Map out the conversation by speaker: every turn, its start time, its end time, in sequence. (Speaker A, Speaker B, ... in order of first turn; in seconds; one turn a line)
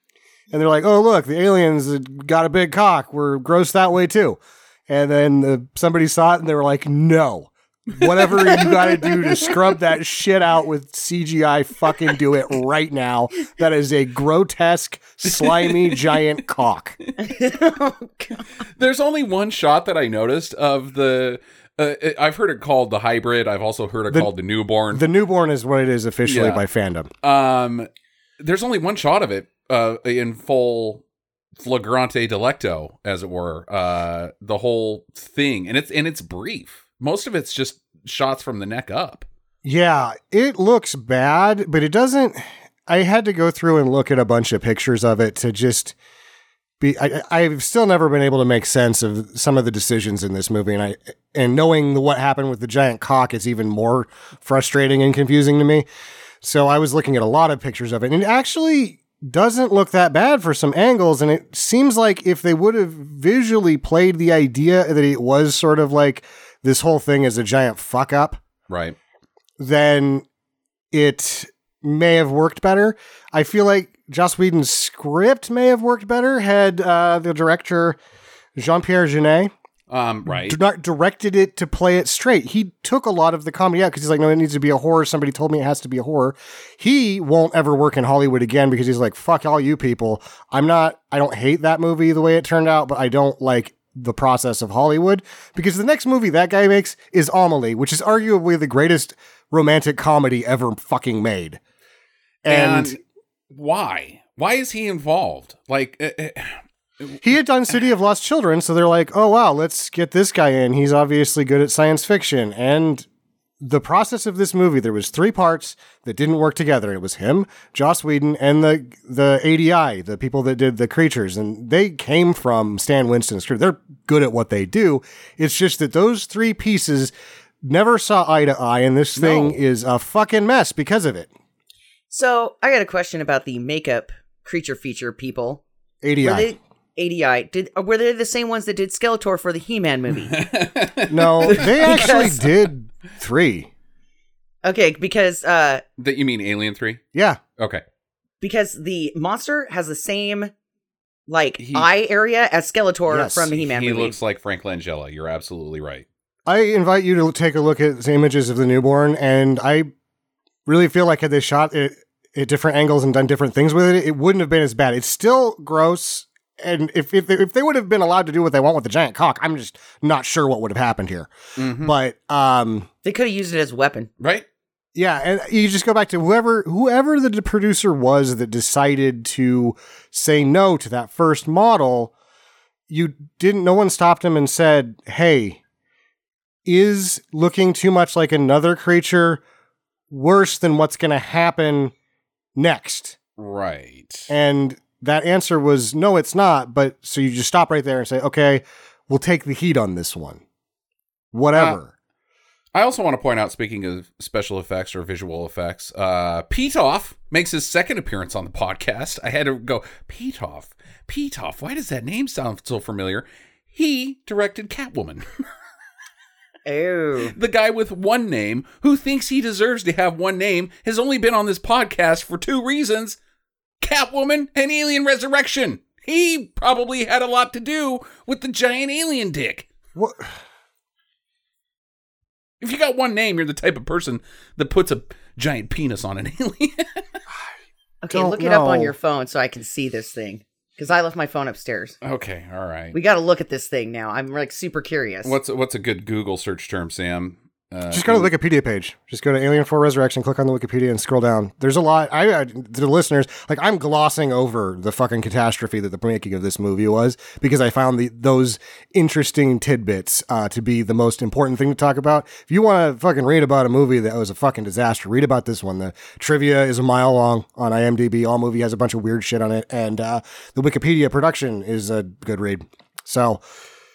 Speaker A: 0.5-17.0
Speaker B: 8.9-9.5
Speaker C: 15.3-16.2
Speaker B: 17.2-18.5
Speaker C: 18.8-25.1
Speaker A: 24.9-27.1
Speaker C: 26.3-26.6
Speaker C: 27.2-27.9
Speaker C: 28.4-31.0
Speaker C: 31.6-39.3
Speaker A: 39.6-46.0
Speaker A: 46.8-55.9
Speaker A: 56.4-68.4
Speaker C: 68.7-69.0
Speaker A: 69.6-70.2
Speaker A: 70.9-78.0
Speaker A: 78.6-79.5
Speaker C: 79.9-80.6
Speaker A: 80.3-101.6
Speaker A: 102.5-103.0
Speaker C: 102.5-103.0
Speaker C: 103.5-107.2
Speaker A: 107.2-113.1
Speaker A: 113.6-127.1
Speaker A: 127.6-131.3
Speaker C: 129.2-129.5
Speaker B: 132.1-135.6
Speaker A: 136.0-136.5
Speaker B: 136.2-140.4
Speaker C: 140.3-142.5
Speaker A: 141.1-143.7
Speaker B: 141.4-142.5
Speaker B: 144.6-145.8
Speaker C: 146.0-147.0
Speaker A: 147.1-147.4
Speaker C: 147.6-147.8
Speaker B: 148.4-150.5
Speaker B: 151.3-154.2
Speaker C: 151.6-151.9
Speaker A: 153.1-153.5
Speaker C: 153.5-156.1
Speaker A: 156.5-159.9
Speaker A: 160.7-172.9
Speaker C: 171.6-171.9
Speaker B: 173.1-174.1
Speaker C: 174.2-174.4
Speaker A: 174.9-182.1
Speaker A: 182.9-185.6
Speaker A: 186.7-189.4
Speaker A: 190.1-191.9
Speaker A: 192.6-193.2
Speaker C: 193.4-194.3
Speaker A: 194.3-200.4
Speaker A: 201.3-201.9
Speaker C: 202.7-215.2
Speaker B: 216.7-217.3
Speaker C: 217.3-223.2
Speaker C: 223.8-229.7
Speaker A: 230.0-230.3
Speaker C: 232.6-237.1
Speaker B: 238.0-242.0
Speaker A: 238.1-238.9
Speaker C: 242.0-242.9
Speaker B: 242.9-245.3
Speaker C: 245.2-248.3
Speaker A: 247.9-273.4